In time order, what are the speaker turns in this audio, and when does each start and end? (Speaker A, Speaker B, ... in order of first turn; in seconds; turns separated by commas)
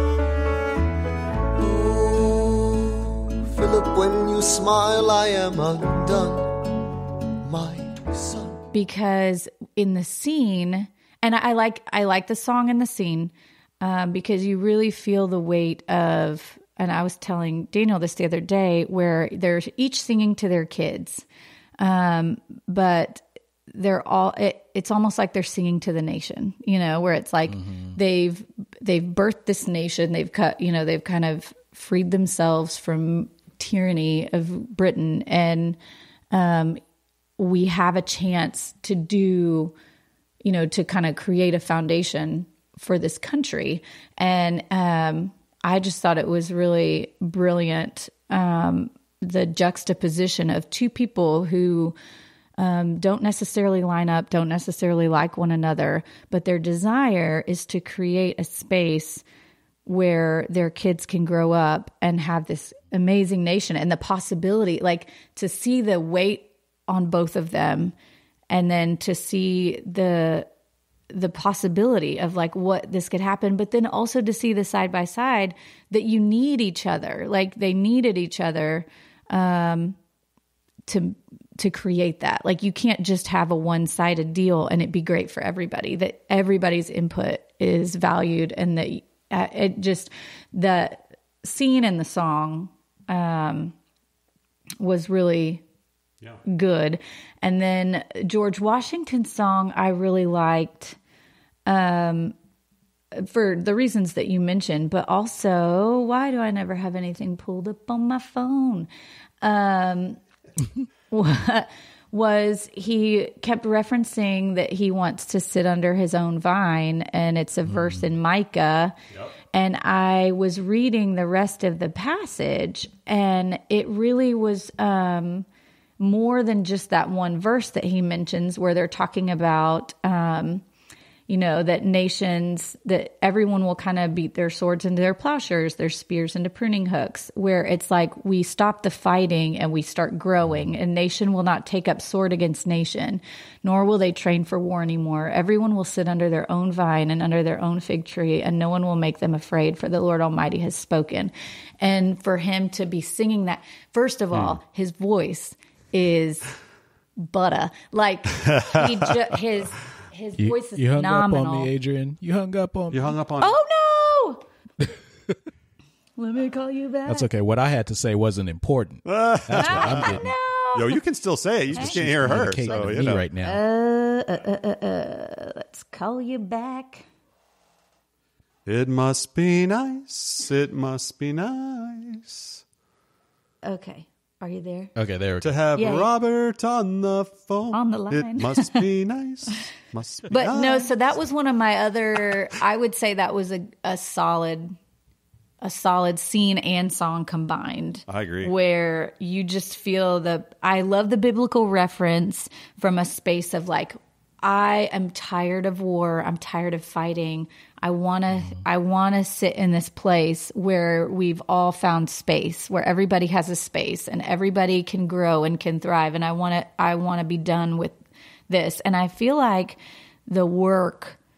Speaker A: 1.6-6.6, Speaker A: 7.4-8.6, Speaker B: 8.7-21.2, Speaker B: 21.8-35.8, Speaker C: 27.5-28.0, Speaker B: 36.3-36.8, Speaker B: 37.4-39.7, Speaker B: 40.4-51.9, Speaker B: 52.6-59.2, Speaker B: 59.9-67.9, Speaker B: 68.5-70.5, Speaker B: 71.1-80.0, Speaker B: 80.9-93.7, Speaker B: 94.8-95.6, Speaker B: 96.5-101.0, Speaker B: 101.7-102.3, Speaker B: 103.1-108.9, Speaker B: 109.4-110.2, Speaker B: 111.1-118.9, Speaker C: 117.7-118.0, Speaker B: 119.5-125.5, Speaker B: 126.0-130.6, Speaker B: 131.3-156.5, Speaker C: 140.4-140.7, Speaker B: 157.2-161.7, Speaker D: 158.4-158.8, Speaker C: 160.4-163.1, Speaker D: 162.9-163.5, Speaker B: 163.4-164.4, Speaker C: 164.8-165.3, Speaker B: 166.2-167.3, Speaker C: 167.1-170.2, Speaker D: 169.0-170.2, Speaker B: 169.6-170.9, Speaker D: 170.7-173.2, Speaker C: 171.7-173.6, Speaker B: 171.7-177.1, Speaker D: 178.7-182.6, Speaker B: 183.6-184.9, Speaker C: 184.9-185.5, Speaker D: 185.4-190.9, Speaker B: 185.8-186.1, Speaker B: 187.7-188.8, Speaker B: 190.3-194.7, Speaker B: 195.6-217.9, Speaker D: 198.1-198.5, Speaker B: 218.5-221.2